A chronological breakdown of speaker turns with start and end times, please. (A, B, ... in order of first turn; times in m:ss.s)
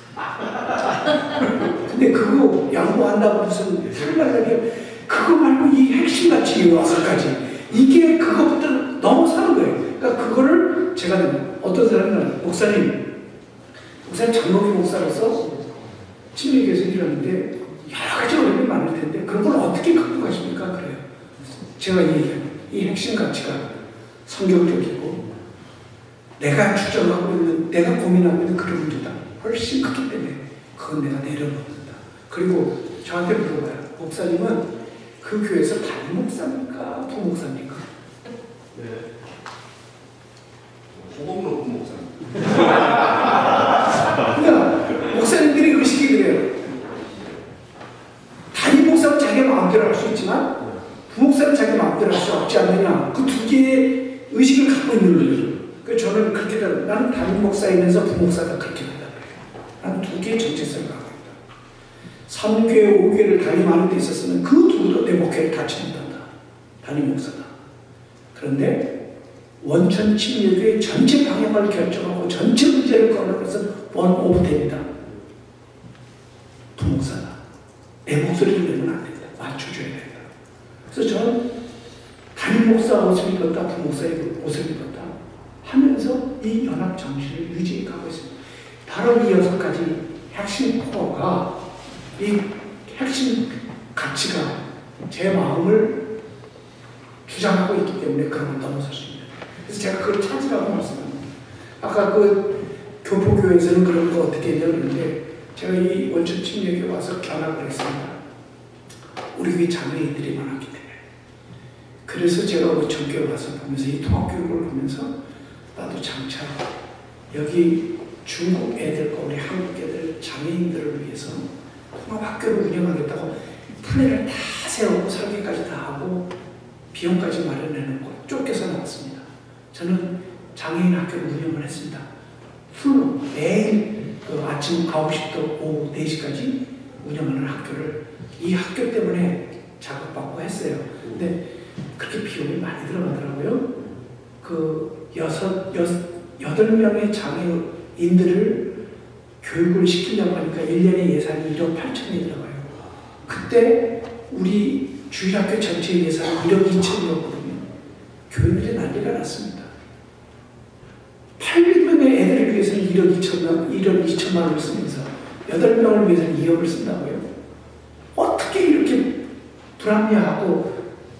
0:00.2-0:01.6 A
0:01.8-0:13.1 B
0:14.0-0:15.4 B
0:16.3-0:23.7 B
0:24.2-0:25.2 B
0:26.4-0:37.9 B
0:38.7-0:39.0 A
0:40.9-0:43.3 C
0:42.5-0:43.5 A
0:44.2-0:46.6 B
0:46.9-0:47.3 A
0:48.5-1:01.4 B
1:02.3-1:06.3 B
1:06.8-1:07.5 B
1:08.3-1:08.9 B
1:09.6-1:14.9 B
1:16.7-1:17.4 B
1:18.0-1:20.3 B
1:20.9-1:21.5 B
1:22.3-1:31.5 B
1:32.1-1:36.0 B
1:37.2-1:41.3 B
1:41.8-1:48.2 B
1:49.3-1:51.0 B
1:52.0-1:55.1 B
1:55.7-1:56.6 B
1:57.3-2:06.3 B
2:06.9-2:12.1 B
2:12.7-2:21.4 B
2:21.9-2:23.8 B
2:24.4-2:28.7 B
2:29.4-2:37.7 B
2:38.3-2:39.7 B
2:41.4-2:47.2 B
2:48.1-2:49.2 B
2:49.8-2:50.8 B